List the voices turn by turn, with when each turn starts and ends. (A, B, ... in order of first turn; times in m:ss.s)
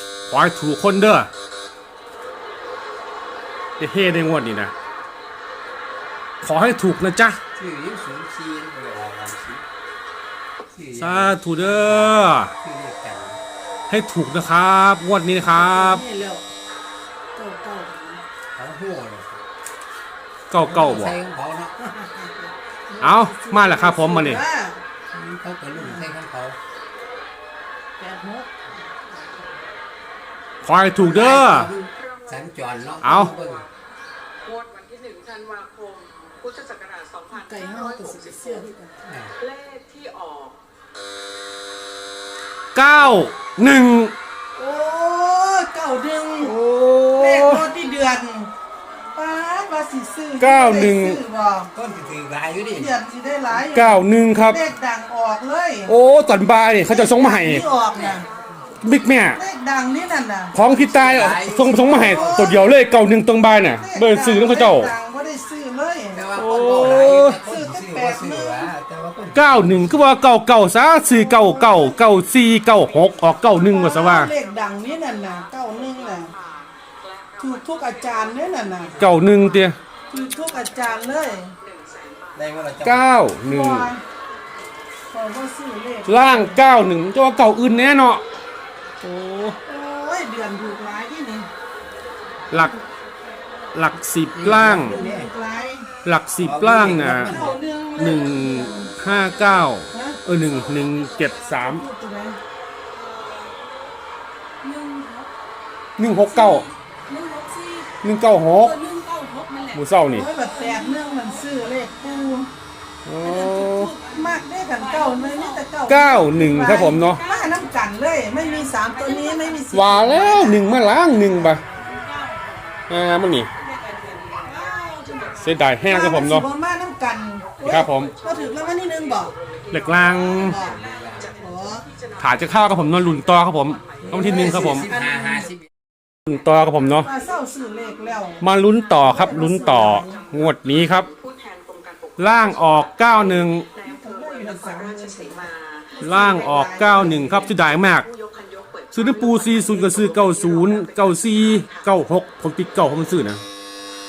0:00.3-0:01.3 A
0:03.8-0:04.7 A
0:06.4-0:07.4 A
0:07.6-0:09.6 B
0:10.7-0:13.4 B
0:11.0-0:12.5 A
0:13.9-0:16.0 A
0:15.4-0:16.4 C
0:17.4-0:18.2 C
0:18.6-0:19.4 B
0:20.5-0:21.2 A
0:20.6-0:21.7 B
0:21.8-0:24.8 C
0:23.0-0:24.4 A
0:25.1-0:26.6 B
0:25.7-0:26.1 C
0:28.0-0:29.1 C
0:30.6-0:31.7 A
0:31.0-0:33.7 B
0:31.5-0:33.7 D
0:33.0-0:33.3 A
0:34.4-0:38.7 D
0:37.3-0:39.0 C
0:39.0-0:39.4 B
0:39.4-0:40.6 D
0:42.7-0:44.1 A
0:44.6-0:46.5 C
0:46.4-0:47.6 A
0:47.2-0:48.5 C
0:49.1-0:51.7 C
0:50.4-0:51.2 A
0:51.7-0:52.9 B
0:52.7-0:55.9 C
0:53.7-0:54.6 A
0:55.8-0:57.7 A
0:56.9-0:58.3 C
0:58.8-0:59.4 A
0:59.3-1:00.6 C
1:00.5-1:04.9 A
1:00.7-1:02.2 B
1:01.7-1:02.7 C
1:03.8-1:06.2 C
1:06.1-1:10.1 B
1:06.4-1:07.4 A
1:06.9-1:08.7 C
1:09.3-1:14.3 A
1:11.1-1:12.0 C
1:13.0-1:22.4 D
1:13.5-1:16.3 C
1:17.4-1:19.0 C
1:19.0-1:19.8 A
1:20.1-1:21.6 C
1:22.3-1:23.0 B
1:22.8-1:23.9 A
1:23.4-1:24.0 C
1:25.1-1:26.6 C
1:26.0-1:28.2 A
1:29.0-1:29.6 A
1:29.6-1:31.5 C
1:32.5-1:32.8 A
1:33.7-1:35.0 A
1:34.3-1:35.3 B
1:34.8-1:35.9 C
1:36.0-1:41.8 A
1:36.4-1:37.6 B
1:37.2-1:39.0 C
1:39.9-1:40.2 C
1:40.9-1:41.3 E
1:41.4-1:42.4 C
1:43.0-1:43.5 E
1:44.6-1:45.3 E
1:46.0-1:46.7 A
1:46.2-1:47.9 E
1:48.0-1:48.8 A
1:48.6-1:52.3 E
1:49.7-1:50.3 A
1:50.1-1:52.5 C
1:53.0-1:53.9 A
1:53.2-2:01.3 C
1:53.7-1:55.7 E
1:55.9-1:57.2 A
1:57.0-1:57.6 E
1:58.3-1:59.7 E
1:59.7-2:01.6 A
2:01.3-2:02.6 E
2:02.9-2:03.5 A
2:03.6-2:04.6 D
2:03.8-2:05.8 E
2:05.4-2:06.5 A
2:05.4-2:09.3 C
2:07.6-2:08.1 A
2:07.7-2:14.6 D
2:09.7-2:10.6 A
2:09.9-2:10.8 C
2:10.5-2:11.3 B
2:11.4-2:11.9 C
2:12.2-2:14.9 A
2:14.0-2:15.6 B
2:14.1-2:15.5 C
2:16.3-2:17.1 A
2:16.7-2:26.0 D
2:17.0-2:18.4 C
2:18.4-2:21.1 A
2:19.0-2:20.3 C
2:22.2-2:23.7 A
2:23.8-2:27.6 C
2:26.0-2:28.1 A
2:27.1-2:31.9 D
2:28.9-2:33.4 A